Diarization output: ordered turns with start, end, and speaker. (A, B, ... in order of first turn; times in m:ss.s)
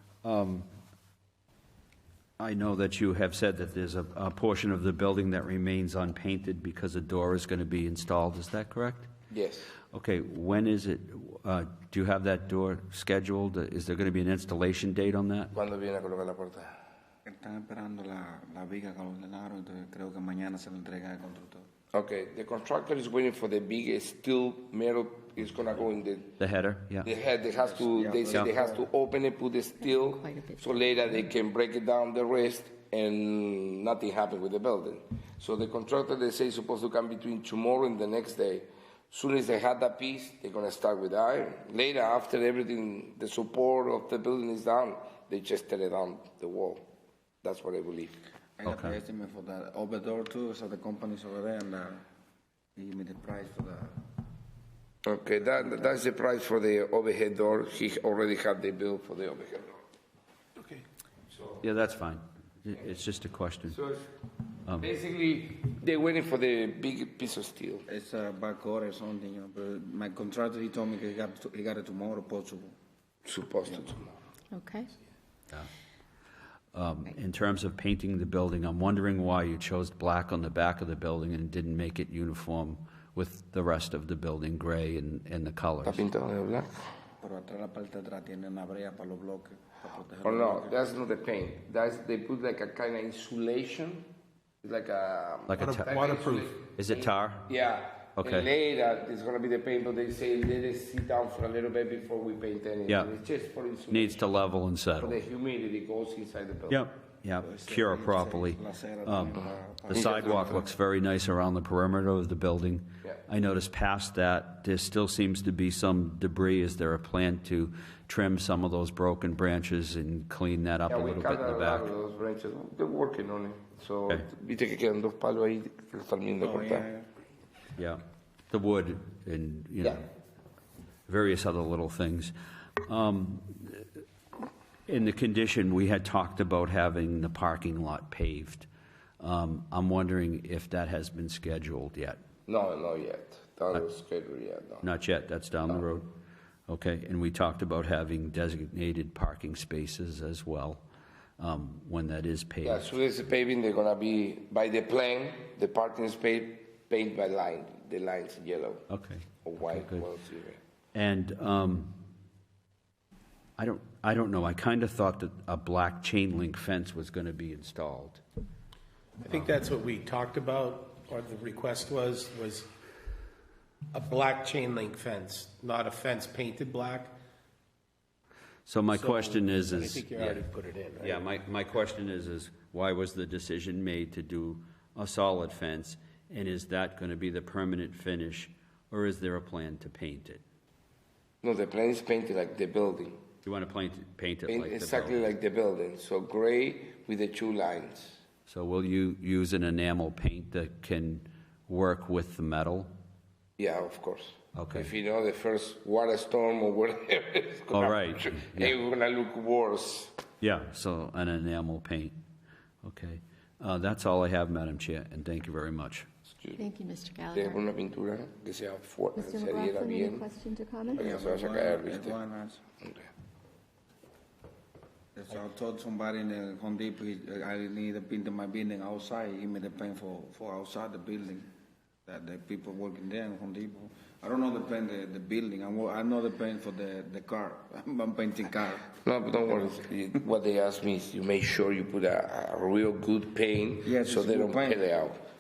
0:00.2-0:00.7 A
0:02.4-0:09.1 A
0:09.3-0:09.7 B
0:09.9-0:15.5 A
0:15.5-0:16.7 B
0:17.3-0:21.6 C
0:21.9-0:26.4 B
0:26.4-0:27.1 A
0:27.0-0:46.8 B
0:27.6-0:28.9 C
0:29.8-0:31.2 D
0:47.4-0:48.2 B
0:48.6-0:52.0 C
0:48.7-0:49.0 A
0:52.8-0:53.9 C
0:55.0-0:59.8 B
1:00.6-1:00.8 E
1:01.6-1:03.8 A
1:03.7-1:04.1 B
1:04.8-1:07.8 B
1:07.9-1:12.7 C
1:13.3-1:14.1 B
1:14.5-1:14.9 D
1:16.7-1:26.0 A
1:25.8-1:26.8 B
1:27.2-1:30.8 C
1:30.2-1:34.1 B
1:34.6-1:44.4 B
1:35.5-1:35.9 A
1:35.6-1:36.6 E
1:36.7-1:37.5 A
1:38.2-1:38.5 A
1:43.9-1:45.2 A
1:45.0-1:46.8 B
1:46.7-1:49.4 A
1:47.4-1:50.6 C
1:49.9-2:01.9 A
1:49.9-1:50.6 B
2:00.9-2:06.8 B
2:06.4-2:07.1 C
2:07.8-2:10.0 A
2:11.1-2:12.3 A
2:12.8-2:13.9 A
2:14.9-2:18.7 A
2:19.2-2:22.2 A
2:22.5-2:24.9 B
2:24.8-2:26.1 A
2:26.7-2:30.8 A
2:31.4-2:32.9 A
2:32.6-2:38.8 B
2:38.9-2:40.1 A
2:39.4-2:40.6 B
2:40.9-2:42.0 A
2:43.6-2:48.2 A
2:49.2-2:52.7 E
2:53.9-2:57.2 E
2:58.7-3:00.4 A
2:58.9-3:01.3 E
3:01.0-3:10.4 A
3:11.4-3:13.2 B
3:13.4-3:15.3 A
3:14.5-3:18.2 B
3:18.5-3:22.9 A
3:23.6-3:30.2 B
3:24.6-3:24.9 A
3:27.7-3:28.8 A
3:30.4-3:32.2 A
3:32.8-3:36.1 A
3:36.4-3:36.7 B
3:36.6-3:37.6 D
3:37.4-3:40.2 B
3:39.2-3:41.1 D
3:41.0-3:42.2 B
3:41.0-3:42.6 C
3:42.8-3:43.1 B
3:45.2-3:51.5 C
3:52.1-3:58.9 C
3:59.0-4:05.2 B
4:03.8-4:04.9 C